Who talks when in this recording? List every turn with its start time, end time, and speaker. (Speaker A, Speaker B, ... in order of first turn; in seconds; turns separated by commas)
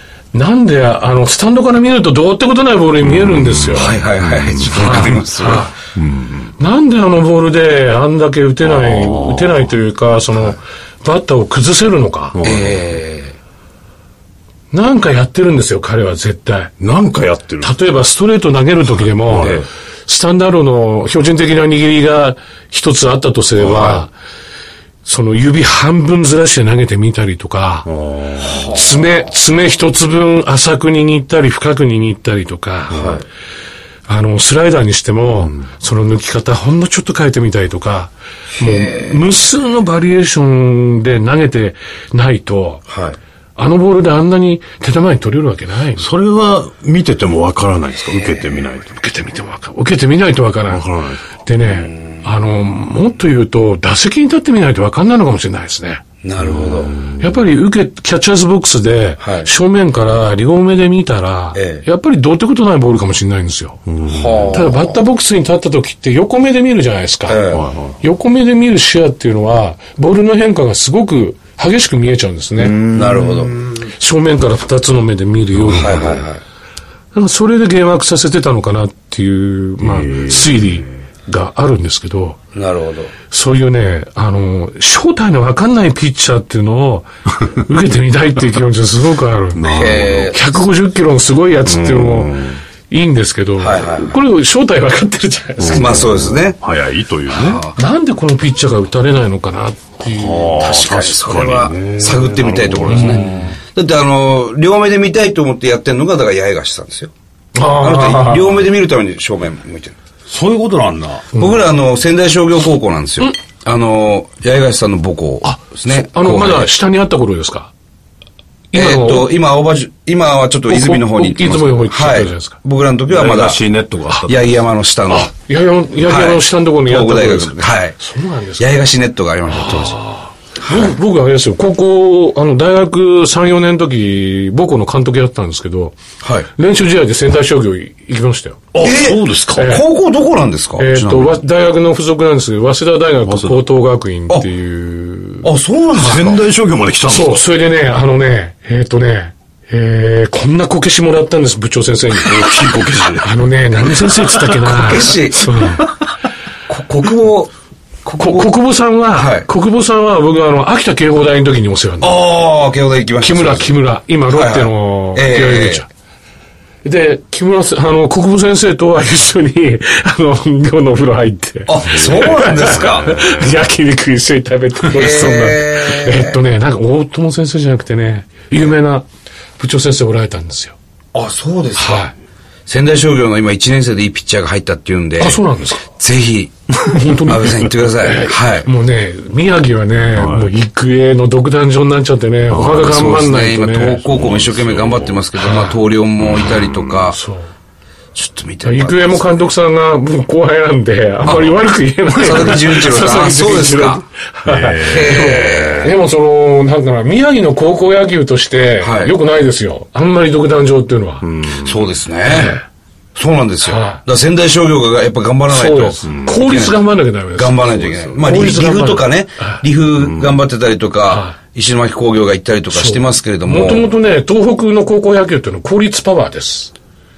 Speaker A: 0.3-4.0, Speaker B: 3.0-4.7, Speaker C: 3.7-5.7, Speaker A: 4.7-5.7, Speaker B: 6.0-6.5, Speaker A: 6.6-12.3, Speaker B: 8.6-9.7, Speaker B: 12.3-12.8, Speaker C: 12.4-13.3, Speaker A: 14.7-16.7, Speaker B: 16.8-17.8, Speaker A: 17.6-24.1, Speaker B: 19.2-19.6, Speaker C: 19.4-19.7, Speaker B: 23.6-24.1, Speaker A: 25.0-27.9, Speaker B: 27.9-28.6, Speaker A: 28.4-33.2, Speaker C: 33.0-33.2, Speaker A: 34.1-42.9, Speaker C: 38.6-39.2, Speaker C: 42.9-43.2, Speaker A: 43.5-46.0, Speaker B: 46.0-49.0, Speaker C: 48.2-48.4, Speaker A: 48.9-50.8, Speaker B: 50.7-51.3, Speaker A: 51.4-56.0, Speaker C: 56.2-57.0, Speaker B: 56.4-57.3, Speaker A: 57.2-63.8, Speaker C: 59.2-59.5, Speaker C: 61.5-61.8, Speaker B: 63.9-64.6, Speaker C: 64.1-65.0, Speaker A: 64.5-67.5, Speaker C: 67.3-67.6, Speaker B: 67.5-68.0, Speaker A: 68.0-72.8, Speaker B: 72.6-73.8, Speaker C: 72.9-73.5, Speaker A: 73.8-76.2, Speaker B: 75.5-76.0, Speaker C: 75.7-76.4, Speaker A: 77.1-82.4, Speaker B: 79.8-80.5, Speaker C: 82.5-83.1, Speaker A: 83.3-89.6, Speaker B: 89.5-90.3, Speaker C: 89.7-90.5, Speaker A: 90.3-96.0, Speaker B: 91.7-92.6, Speaker C: 93.6-94.2, Speaker B: 95.6-97.6, Speaker C: 95.8-96.6, Speaker C: 97.3-97.8, Speaker A: 97.7-100.8, Speaker B: 100.1-103.5, Speaker C: 100.6-107.1, Speaker A: 102.9-103.5, Speaker A: 107.5-108.6, Speaker C: 107.8-110.0, Speaker B: 110.3-111.3, Speaker A: 111.3-111.6, Speaker C: 111.4-116.7, Speaker A: 115.4-117.7, Speaker A: 118.7-119.3, Speaker C: 118.7-123.6, Speaker A: 120.7-122.6, Speaker B: 123.1-124.5, Speaker C: 124.3-125.3, Speaker A: 125.1-128.8, Speaker C: 126.0-128.0, Speaker C: 128.6-130.0, Speaker A: 129.5-136.0, Speaker C: 130.6-130.9, Speaker C: 136.2-136.5, Speaker A: 136.5-138.7, Speaker B: 138.7-139.7, Speaker C: 138.8-141.4, Speaker A: 139.5-139.8, Speaker A: 140.8-146.3, Speaker B: 143.2-143.6, Speaker C: 145.4-146.4, Speaker B: 145.9-147.4, Speaker A: 147.1-152.3, Speaker B: 152.2-154.7, Speaker A: 153.2-155.9, Speaker C: 154.7-155.4, Speaker C: 156.7-157.5, Speaker C: 158.1-158.5, Speaker A: 158.1-162.2, Speaker C: 159.1-159.5, Speaker C: 162.0-163.7, Speaker A: 163.2-165.9, Speaker C: 164.3-165.8, Speaker A: 166.8-179.1, Speaker C: 171.7-173.1, Speaker B: 171.9-173.3, Speaker C: 174.9-176.4, Speaker A: 179.6-180.8, Speaker C: 181.1-182.1, Speaker A: 181.8-182.1, Speaker C: 182.7-185.4, Speaker A: 185.2-185.9, Speaker C: 185.9-186.6, Speaker A: 186.8-194.0, Speaker C: 187.2-188.7, Speaker B: 190.1-190.5, Speaker B: 192.5-193.1, Speaker C: 192.7-197.2, Speaker B: 194.1-195.3, Speaker A: 195.4-195.8, Speaker B: 196.2-197.0, Speaker A: 197.1-197.5, Speaker C: 198.1-199.4, Speaker A: 198.6-211.2, Speaker C: 201.2-201.5, Speaker C: 202.1-204.0, Speaker B: 204.4-205.7, Speaker C: 204.8-205.9, Speaker C: 208.8-209.1, Speaker B: 211.2-211.9, Speaker C: 211.6-212.6, Speaker A: 212.2-212.6, Speaker C: 213.1-216.8, Speaker A: 213.6-214.0, Speaker A: 215.5-219.6, Speaker B: 216.0-216.5, Speaker C: 217.3-223.8, Speaker B: 218.1-218.5, Speaker B: 220.0-220.4, Speaker A: 221.1-221.4, Speaker A: 222.7-226.7